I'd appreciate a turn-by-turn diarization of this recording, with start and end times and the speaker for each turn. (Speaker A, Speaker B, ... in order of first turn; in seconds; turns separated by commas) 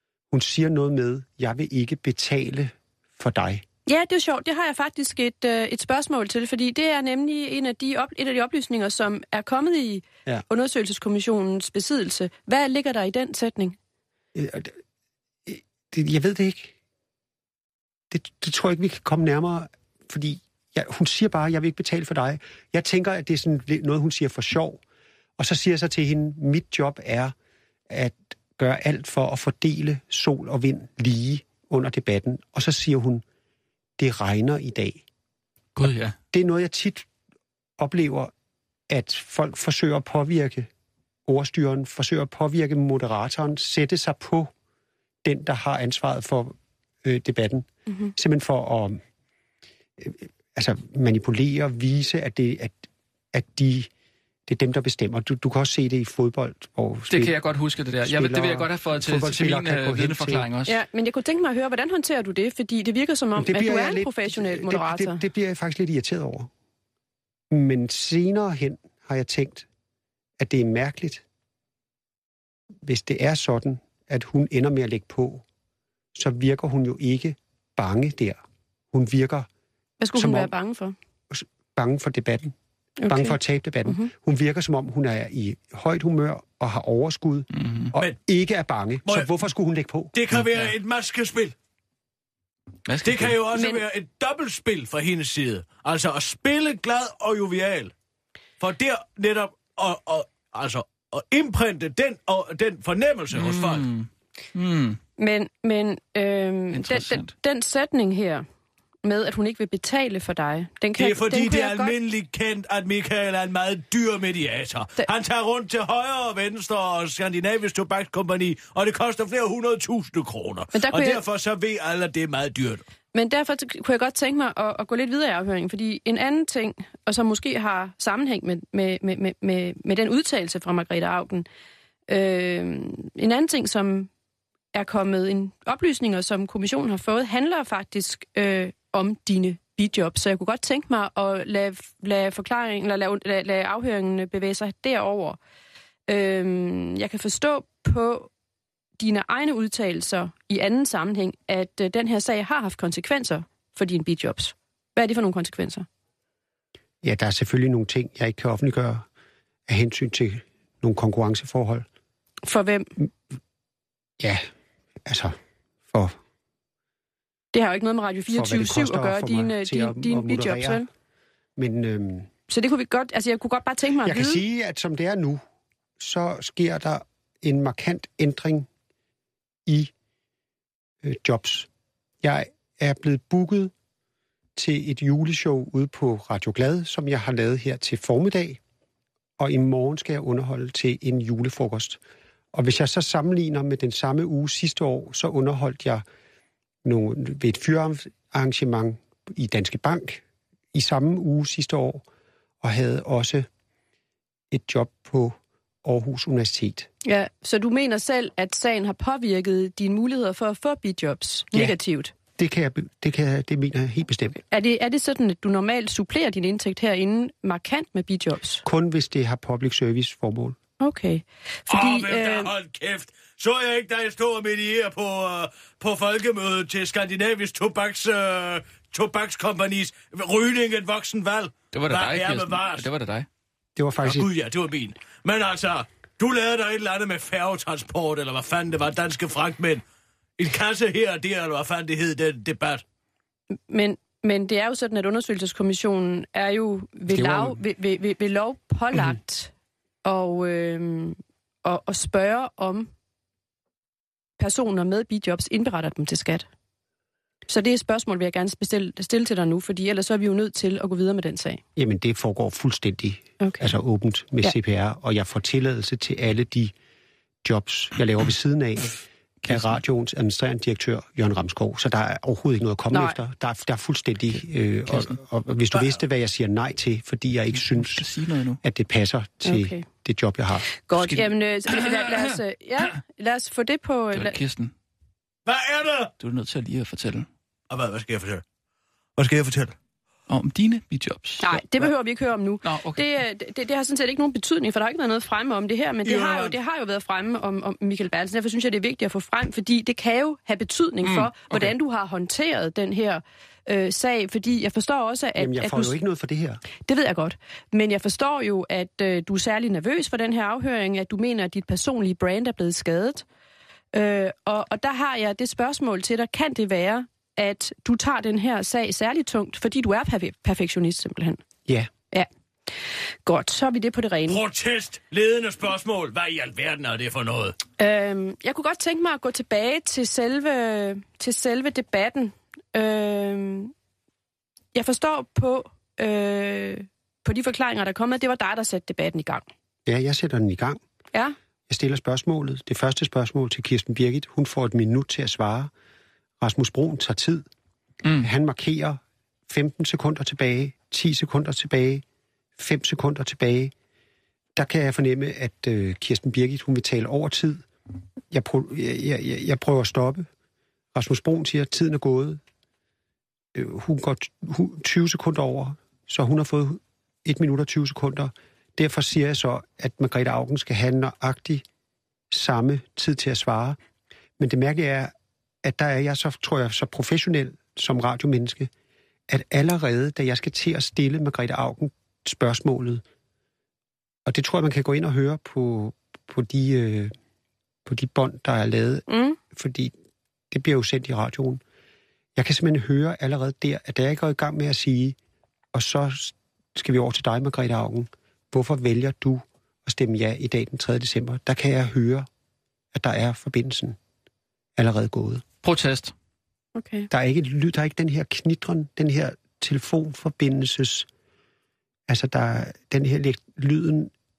Speaker A: 0.3-3.6, Speaker B: 3.9-13.8, Speaker A: 14.3-14.8, Speaker A: 15.5-16.8, Speaker A: 18.1-24.8, Speaker A: 25.4-27.3, Speaker A: 27.9-33.2, Speaker A: 34.0-35.0, Speaker C: 35.8-36.2, Speaker A: 36.3-37.1, Speaker A: 37.8-38.3, Speaker A: 38.9-40.7, Speaker A: 41.3-44.5, Speaker A: 45.2-49.0, Speaker A: 50.0-52.8, Speaker A: 53.3-53.9, Speaker A: 54.5-57.4, Speaker C: 57.1-60.8, Speaker A: 58.0-60.5, Speaker B: 60.6-65.2, Speaker A: 63.4-66.5, Speaker A: 67.5-69.7, Speaker A: 70.4-71.2, Speaker A: 72.8-75.4, Speaker A: 76.2-78.4, Speaker A: 78.9-79.5, Speaker B: 80.0-81.0, Speaker A: 80.2-80.5, Speaker A: 81.3-82.5, Speaker B: 83.0-84.0, Speaker A: 83.0-90.1, Speaker C: 87.5-87.9, Speaker D: 90.1-91.5, Speaker C: 90.3-90.7, Speaker C: 92.9-93.4, Speaker D: 93.0-97.9, Speaker B: 93.5-93.8, Speaker D: 98.6-103.9, Speaker C: 103.3-105.0, Speaker B: 105.2-108.5, Speaker C: 106.7-107.3, Speaker B: 109.0-112.0, Speaker D: 111.0-122.8, Speaker B: 120.7-121.2, Speaker B: 123.1-131.5, Speaker B: 132.1-134.1, Speaker B: 134.7-145.4, Speaker B: 146.1-148.3, Speaker B: 149.0-155.9, Speaker A: 157.0-159.1, Speaker A: 159.7-161.9, Speaker B: 162.4-162.9, Speaker A: 164.2-164.5, Speaker A: 165.1-165.4, Speaker A: 165.9-166.2, Speaker B: 167.5-170.9, Speaker A: 168.3-170.9, Speaker A: 171.6-172.3, Speaker B: 172.5-174.4, Speaker A: 174.0-175.4, Speaker A: 176.0-178.7, Speaker A: 179.7-179.9, Speaker A: 181.0-181.7, Speaker A: 182.2-183.7, Speaker A: 184.6-188.6, Speaker A: 189.4-192.0, Speaker A: 192.5-196.0, Speaker A: 196.8-200.2, Speaker A: 200.7-202.1, Speaker A: 202.6-203.5, Speaker A: 204.5-206.9, Speaker B: 207.0-212.1, Speaker A: 212.3-214.4, Speaker B: 214.5-218.6, Speaker A: 218.6-220.6, Speaker B: 220.8-222.5, Speaker D: 221.7-232.9, Speaker C: 231.7-233.3, Speaker A: 233.8-234.3, Speaker D: 234.0-239.8, Speaker D: 240.4-242.8, Speaker B: 243.7-249.5, Speaker A: 247.1-247.6, Speaker B: 250.1-252.9, Speaker B: 254.4-256.5, Speaker B: 257.5-261.6, Speaker A: 261.8-266.7, Speaker B: 263.4-263.7, Speaker A: 267.4-278.1, Speaker C: 269.4-269.8, Speaker B: 272.9-273.2, Speaker C: 274.9-275.2, Speaker C: 277.5-278.6, Speaker A: 278.6-280.7, Speaker B: 279.4-279.9, Speaker B: 280.8-284.4, Speaker C: 281.0-282.4, Speaker C: 284.1-284.7, Speaker D: 285.5-286.1, Speaker C: 286.2-287.3, Speaker D: 287.7-288.4, Speaker D: 289.2-289.8, Speaker C: 290.3-291.9, Speaker B: 291.4-305.9, Speaker C: 292.6-293.1, Speaker D: 296.1-296.6, Speaker C: 301.1-301.7, Speaker A: 305.4-306.6, Speaker B: 306.8-313.2, Speaker B: 313.9-321.4, Speaker B: 323.2-324.4, Speaker D: 324.3-327.6, Speaker B: 327.8-333.7, Speaker B: 334.7-339.5, Speaker A: 339.9-340.8, Speaker A: 341.7-345.7, Speaker A: 346.4-347.5, Speaker A: 348.2-352.0, Speaker A: 352.6-353.7, Speaker A: 354.6-357.6, Speaker A: 358.3-360.3, Speaker A: 360.9-362.4, Speaker A: 363.5-371.6, Speaker A: 372.3-373.8, Speaker A: 374.4-378.7, Speaker A: 379.3-383.0, Speaker A: 384.3-387.1, Speaker A: 387.9-389.9, Speaker B: 389.1-389.4, Speaker A: 390.5-391.6, Speaker A: 392.4-395.2, Speaker A: 395.7-402.3, Speaker A: 402.9-404.0, Speaker A: 404.8-405.4, Speaker C: 405.6-406.1, Speaker B: 406.8-407.1, Speaker A: 407.1-411.1, Speaker A: 412.1-414.1